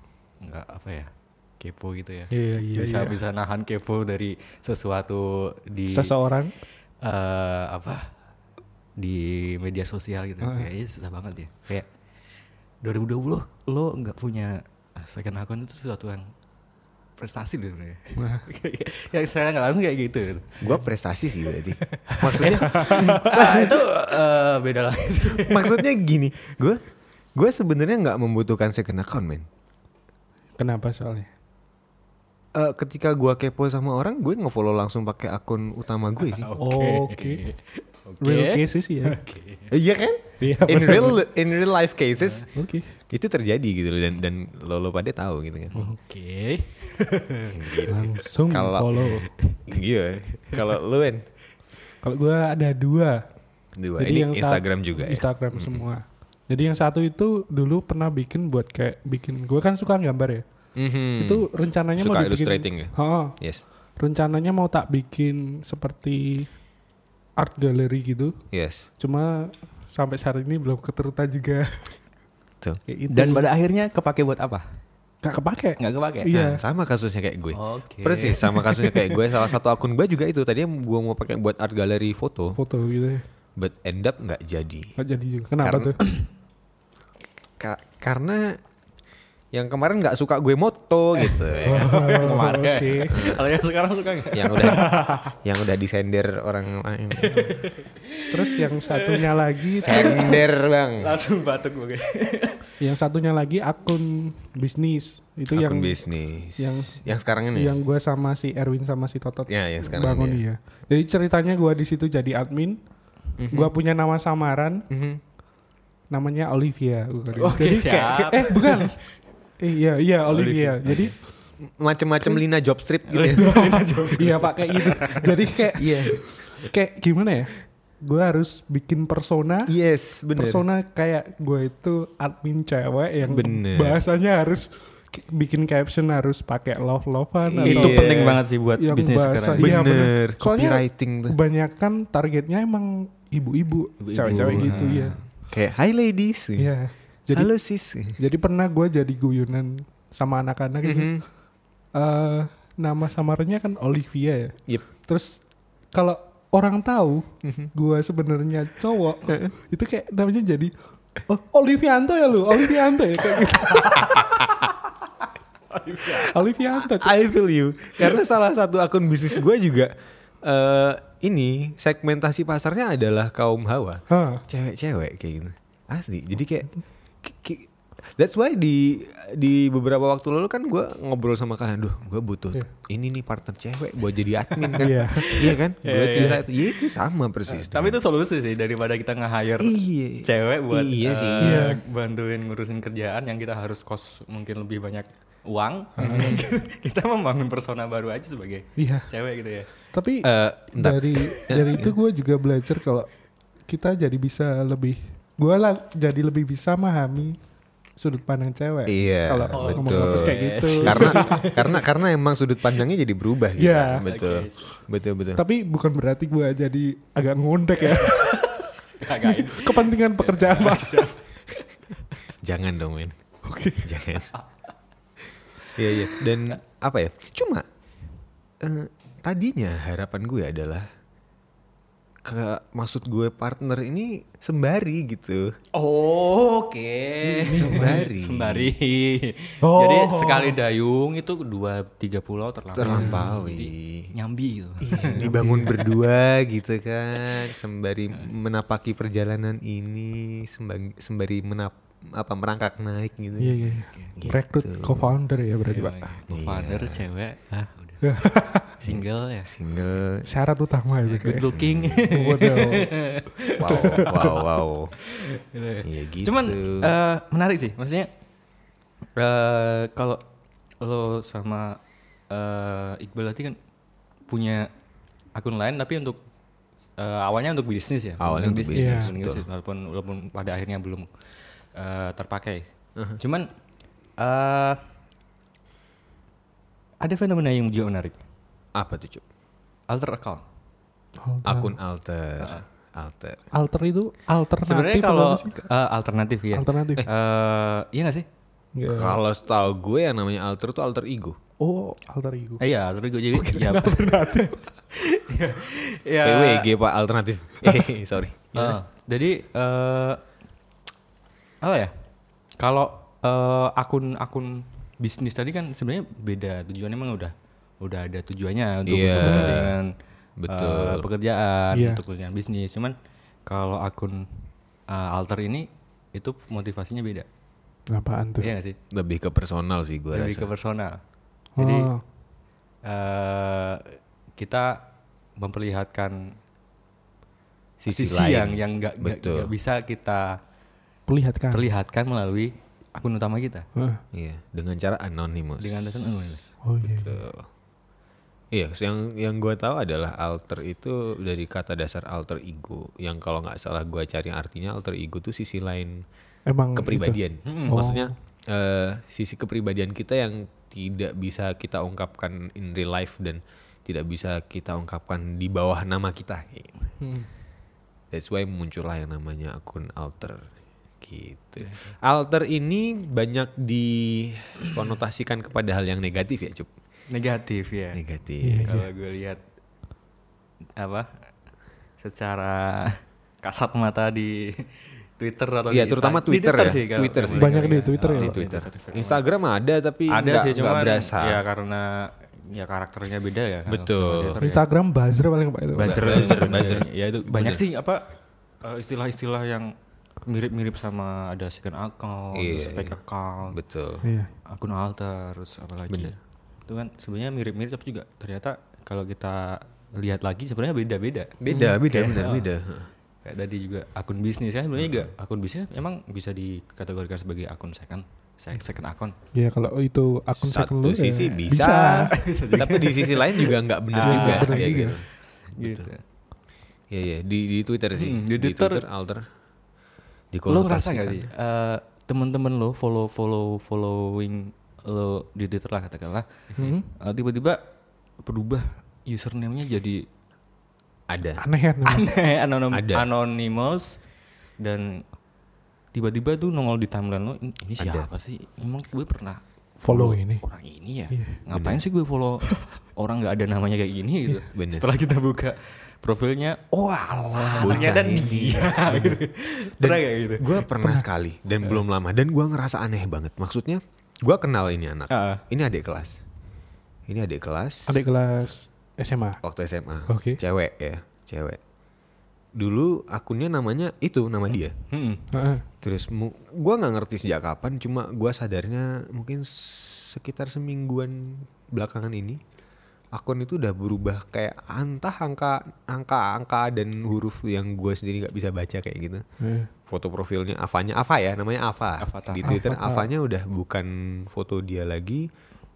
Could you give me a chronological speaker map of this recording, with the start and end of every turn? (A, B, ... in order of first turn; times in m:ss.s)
0:00.4-0:06.2 A
0:02.3-0:03.2 B
0:05.9-0:06.6 B
0:07.0-0:08.1 A
0:09.0-0:11.9 A
0:10.4-0:10.7 B
0:12.8-0:16.3 A
0:17.2-0:20.8 A
0:18.2-0:18.4 B
0:20.6-0:23.9 C
0:21.6-0:25.9 A
0:22.2-0:23.3 B
0:25.4-0:26.8 C
0:27.4-0:29.5 C
0:30.6-0:31.3 B
0:32.5-0:36.5 C
0:36.2-0:39.7 A
0:36.6-0:37.4 B
0:38.2-0:39.2 B
0:39.7-0:42.5 C
0:40.4-0:41.2 B
0:42.5-0:42.9 B
0:43.1-0:45.8 C
0:45.7-0:47.9 A
0:47.5-0:49.1 C
0:47.9-0:49.3 B
0:49.0-0:49.8 A
0:49.7-0:51.2 C
0:50.5-0:50.8 A
0:52.0-0:53.2 B
0:53.8-0:55.8 C
0:54.0-1:00.4 B
1:00.8-1:03.6 C
1:01.2-1:03.4 B
1:04.0-1:06.5 B
1:07.4-1:08.4 B
1:08.5-1:08.9 C
1:09.0-1:11.9 B
1:12.9-1:13.4 B
1:13.1-1:14.7 A
1:15.2-1:16.6 B
1:15.8-1:16.3 A
1:16.3-1:22.6 C
1:17.5-1:19.4 A
1:22.6-1:23.2 B
1:23.6-1:24.9 C
1:25.0-1:26.0 B
1:25.6-1:26.0 C
1:27.6-1:28.6 C
1:29.5-1:32.1 C
1:31.2-1:35.3 A
1:31.6-1:33.3 B
1:33.1-1:33.4 C
1:34.3-1:37.5 C
1:34.9-1:35.2 B
1:37.2-1:40.5 A
1:38.3-1:40.2 B
1:39.8-1:41.2 C
1:41.0-1:42.7 A
1:42.8-1:46.0 B
1:45.5-1:47.8 C
1:46.6-1:52.8 B
1:49.5-1:50.4 C
1:53.4-1:53.7 C
1:53.5-1:54.9 B
1:54.9-1:55.2 C
1:56.1-1:59.0 B
1:57.4-1:59.0 A
1:59.6-2:01.2 B
2:00.3-2:01.1 A
2:01.6-2:03.6 C
2:03.1-2:06.1 A
2:03.4-2:09.7 B
2:05.8-2:06.2 C
2:09.7-2:10.6 C
2:10.4-2:18.1 B
2:13.2-2:14.0 C
2:17.4-2:18.4 C
2:17.6-2:20.0 A
2:18.8-2:25.2 B
2:19.6-2:21.4 C
2:24.0-2:25.2 A
2:24.3-2:26.7 C
2:26.6-2:27.5 B
2:27.3-2:28.2 C
2:28.2-2:31.2 B
2:30.8-2:31.2 C
2:32.0-2:35.4 B
2:35.9-2:40.7 B
2:37.4-2:37.7 C
2:41.3-2:44.6 B
2:44.0-2:44.7 C
2:45.7-2:46.3 A
2:46.0-2:47.2 B
2:46.8-2:56.7 C
2:54.1-2:54.4 B
2:57.2-3:08.0 C
3:04.6-3:06.9 A
3:04.8-3:05.4 B
3:07.5-3:19.7 A
3:09.6-3:11.7 C
3:11.4-3:11.8 B
3:16.0-3:16.4 B
3:18.8-3:19.1 B
3:19.9-3:23.1 B
3:20.2-3:21.9 C
3:23.7-3:27.4 B
3:28.0-3:31.5 B
3:28.9-3:35.4 C
3:29.5-3:31.8 A
3:33.6-3:34.0 B
3:34.0-3:34.9 A
3:35.4-3:41.2 B
3:38.0-3:41.7 A
3:42.4-3:43.2 C
3:43.4-3:44.0 B
3:43.8-3:44.3 C
3:45.8-3:47.7 C
3:48.6-3:50.9 C
3:52.2-3:55.6 C
3:55.7-4:06.0 A
3:57.2-3:58.0 B
3:57.5-3:58.7 C
3:59.6-4:00.6 B
4:02.8-4:04.1 C
4:02.9-4:03.3 B
4:04.8-4:13.6 C
4:05.2-4:05.7 B
4:13.4-4:16.1 B
4:13.7-4:14.2 A
4:14.2-4:15.1 C
4:15.7-4:18.1 A
4:16.3-4:17.0 C
4:18.0-4:18.8 B
4:18.8-4:19.5 A
4:18.8-4:20.3 C
4:20.2-4:21.5 B
4:21.1-4:24.5 A
4:21.4-4:22.1 C
4:22.1-4:22.9 B
4:23.6-4:25.0 C
4:23.7-4:24.2 B
4:25.1-4:28.1 A
4:25.8-4:27.0 C
4:29.2-4:30.2 A
4:30.8-4:31.8 A
4:32.3-4:33.6 A
4:34.3-4:34.7 A
4:35.4-4:36.2 A
4:37.0-4:41.1 A
4:38.2-4:39.5 C
4:38.8-4:39.1 B
4:41.8-4:42.6 A
4:43.2-4:43.5 A
4:44.2-4:44.8 A
4:47.0-4:48.2 A
4:48.8-4:49.2 C
4:49.9-4:50.4 A
4:51.2-4:51.8 B
4:51.4-4:53.4 C
4:53.5-4:55.6 B
4:54.6-4:58.3 A
4:56.5-4:57.0 B
4:58.8-4:59.2 B
4:58.9-5:01.4 C
5:01.6-5:02.6 B
5:02.6-5:06.7 A
5:03.3-5:04.6 B
5:06.2-5:08.8 C
5:08.6-5:10.2 A
5:11.6-5:11.9 A
5:12.6-5:19.9 A
5:18.8-5:19.8 C
5:19.2-5:19.6 B
5:20.4-5:21.1 C
5:20.5-5:23.0 A
5:21.7-5:22.0 B
5:23.5-5:27.3 A
5:27.9-5:28.5 B
5:28.4-5:28.8 A
5:28.9-5:30.5 C
5:30.1-5:31.0 A
5:31.6-5:31.9 A
5:31.6-5:32.0 B
5:32.8-5:34.9 A
5:35.4-5:36.3 A
5:37.8-5:39.5 C
5:37.9-5:40.4 A
5:41.1-5:41.7 B
5:41.5-5:43.7 A
5:43.8-5:44.0 B
5:44.1-5:45.8 C
5:45.6-5:46.6 A
5:46.6-5:47.2 B
5:46.8-5:47.5 C
5:48.5-5:56.0 C
5:56.5-5:58.1 B
5:56.8-6:06.8 C
5:57.5-5:57.8 A
6:07.0-6:07.3 B
6:08.1-6:10.5 C
6:11.0-6:16.7 C
6:11.6-6:12.0 A
6:17.1-6:18.0 A
6:17.9-6:18.8 C
6:18.4-6:18.9 B
6:18.6-6:19.4 A
6:20.8-6:21.1 A
6:22.0-6:29.2 A
6:25.7-6:31.4 C
6:27.4-6:28.4 B
6:30.1-6:34.7 A
6:33.7-6:34.4 C
6:34.4-6:36.4 B
6:35.8-6:38.0 A
6:35.8-6:37.6 C
6:38.6-6:39.7 A
6:40.2-6:43.6 A
6:42.3-6:44.0 C
6:44.0-6:44.3 B
6:44.5-6:52.5 A
6:45.9-6:46.2 C
6:51.4-6:52.9 C
6:51.5-6:51.8 B
6:53.2-6:59.2 A
6:54.8-6:55.1 C
6:59.3-7:02.1 B
7:00.4-7:05.1 C
7:01.9-7:06.0 A
7:04.0-7:05.0 B
7:05.6-7:05.9 C
7:06.9-7:09.3 C
7:08.0-7:08.8 A
7:10.3-7:11.3 C
7:10.5-7:16.3 A
7:16.6-7:16.9 B
7:17.0-7:17.6 A
7:18.2-7:20.0 A
7:21.1-7:21.4 C
7:21.4-7:22.1 B
7:21.8-7:24.0 A
7:22.7-7:23.1 C
7:24.6-7:25.0 A
7:25.9-7:40.7 A
7:27.8-7:28.1 C
7:29.8-7:30.4 B
7:31.1-7:31.4 B
7:31.5-7:31.8 C
7:34.5-7:34.9 C
7:37.4-7:37.8 B
7:37.6-7:39.2 C
7:39.8-7:46.2 C
7:45.1-7:45.4 A
7:47.1-7:48.0 C
7:47.9-7:49.4 B
7:49.4-7:51.6 C
7:50.1-7:50.4 B
7:52.6-7:54.8 C
7:54.9-7:55.2 A
7:55.3-7:55.6 B
7:55.8-8:02.4 C
8:03.1-8:09.2 C
8:09.4-8:09.7 B
8:09.9-8:15.3 C
8:12.0-8:12.6 A
8:12.4-8:13.1 B